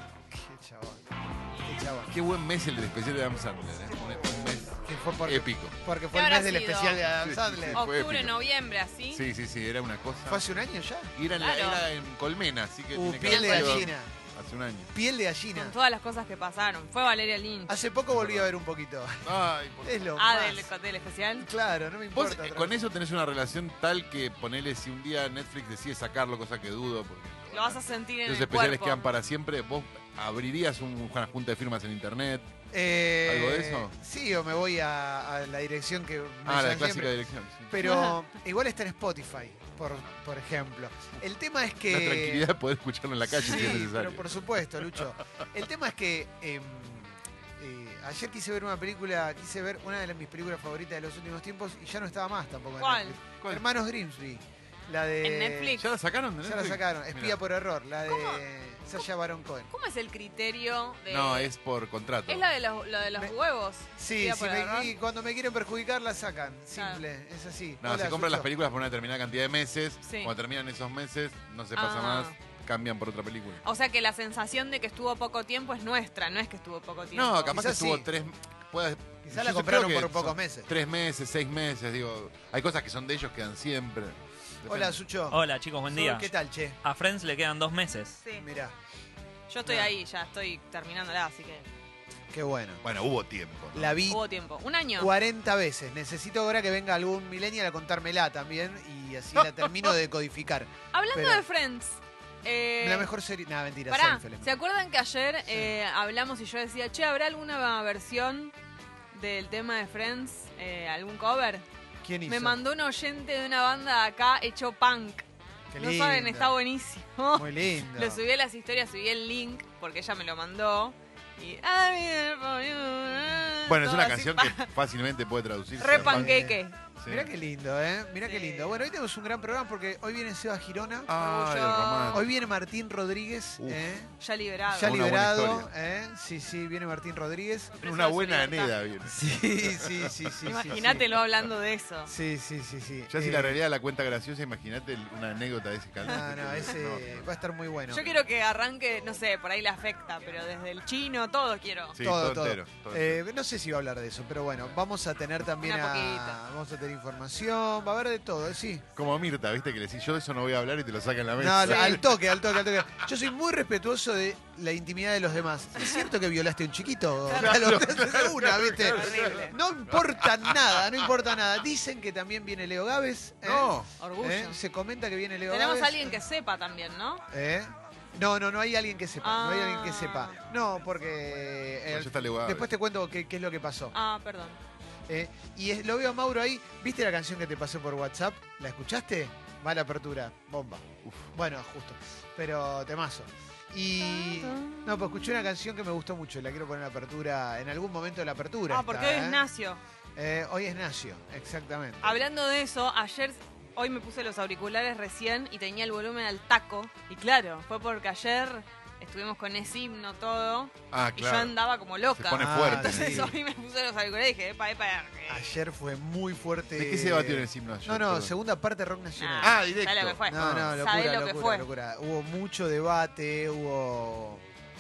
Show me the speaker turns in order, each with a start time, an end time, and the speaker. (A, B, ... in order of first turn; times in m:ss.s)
0:00.3-0:01.0 A
0:01.6-0:02.1 A
0:02.1-0:05.8 B
0:04.8-0:07.8 A
0:06.1-0:07.0 C
0:07.2-0:08.4 B
0:07.7-0:09.2 C
0:09.1-0:10.4 B
0:10.3-0:11.1 A
0:11.2-0:14.9 B
0:11.3-0:11.8 C
0:12.9-0:14.1 A
0:13.2-0:13.9 C
0:14.9-0:15.8 A
0:15.6-0:17.8 C
0:17.7-0:20.7 A
0:18.1-0:18.5 B
0:19.2-0:20.1 B
0:20.2-0:21.5 C
0:21.4-0:22.7 A
0:22.1-0:32.5 B
0:27.5-0:29.0 C
0:32.7-0:37.1 A
0:33.2-0:33.9 B
0:36.5-0:37.8 B
0:37.7-0:42.5 A
0:37.8-0:38.2 C
0:41.9-0:45.0 B
0:43.4-0:55.8 A
0:43.5-0:43.8 C
0:52.8-0:53.2 C
0:55.2-0:55.9 C
0:55.8-0:57.4 B
0:56.4-0:59.7 A
0:58.1-0:58.4 C
0:59.7-1:01.5 C
1:01.1-1:02.5 B
1:02.3-1:04.9 C
1:04.0-1:08.5 A
1:06.8-1:07.0 C
1:07.8-1:13.6 B
1:10.0-1:10.4 C
1:11.8-1:12.3 C
1:13.6-1:17.6 C
1:17.1-1:25.0 B
1:17.5-1:18.1 A
1:19.3-1:20.7 A
1:24.7-1:26.8 A
1:25.3-1:26.3 D
1:26.8-1:28.2 D
1:28.2-1:28.4 C
1:28.4-1:28.7 A
1:29.5-1:31.7 C
1:29.6-1:29.9 A
1:32.3-1:32.8 A
1:32.8-1:34.0 B
1:33.7-1:34.2 A
1:34.1-1:35.1 C
1:35.0-1:41.4 A
1:40.9-1:43.1 C
1:42.8-1:44.5 A
1:43.9-1:48.5 C
1:49.1-1:51.6 C
1:52.0-1:52.6 A
1:52.3-1:55.2 C
1:55.7-1:56.6 A
1:55.8-2:04.7 C
1:57.3-1:58.2 A
2:03.7-2:06.4 B
2:05.8-2:06.8 C
2:05.9-2:11.1 A
2:07.0-2:07.3 B
2:08.2-2:08.7 C
2:11.1-2:12.3 B
2:11.1-2:12.2 C
2:12.1-2:14.1 A
2:13.6-2:14.0 B
2:14.2-2:15.0 C
2:14.7-2:17.8 A
2:14.8-2:15.7 B
2:17.8-2:18.8 C
2:17.8-2:20.8 B
2:19.1-2:21.1 A
2:20.4-2:22.1 C
2:22.1-2:23.6 A
2:23.1-2:27.3 B
2:26.0-2:28.1 A
2:27.9-2:32.0 C
2:32.0-2:33.2 B
2:32.0-2:38.8 A
2:35.6-2:36.4 C
2:39.0-2:42.5 B
2:41.4-2:56.2 A
2:41.7-2:42.0 C
2:47.3-2:50.8 B
2:48.9-2:49.6 C
2:53.4-2:53.9 B
2:54.0-2:54.6 C
2:55.5-2:57.2 C
2:57.3-3:03.9 A
2:59.2-3:00.4 C
3:01.9-3:02.7 B
3:03.9-3:04.6 C
3:05.1-3:19.5 A
3:11.0-3:11.3 B
3:14.0-3:15.5 C
3:18.7-3:19.8 C
3:20.2-3:22.2 A
3:22.0-3:35.5 C
3:30.9-3:31.5 B
3:32.2-3:33.3 B
3:32.4-3:33.4 A
3:35.3-3:39.7 A
3:36.8-3:38.3 B
3:39.2-3:41.7 C
3:39.4-3:40.8 B
3:40.3-3:44.4 A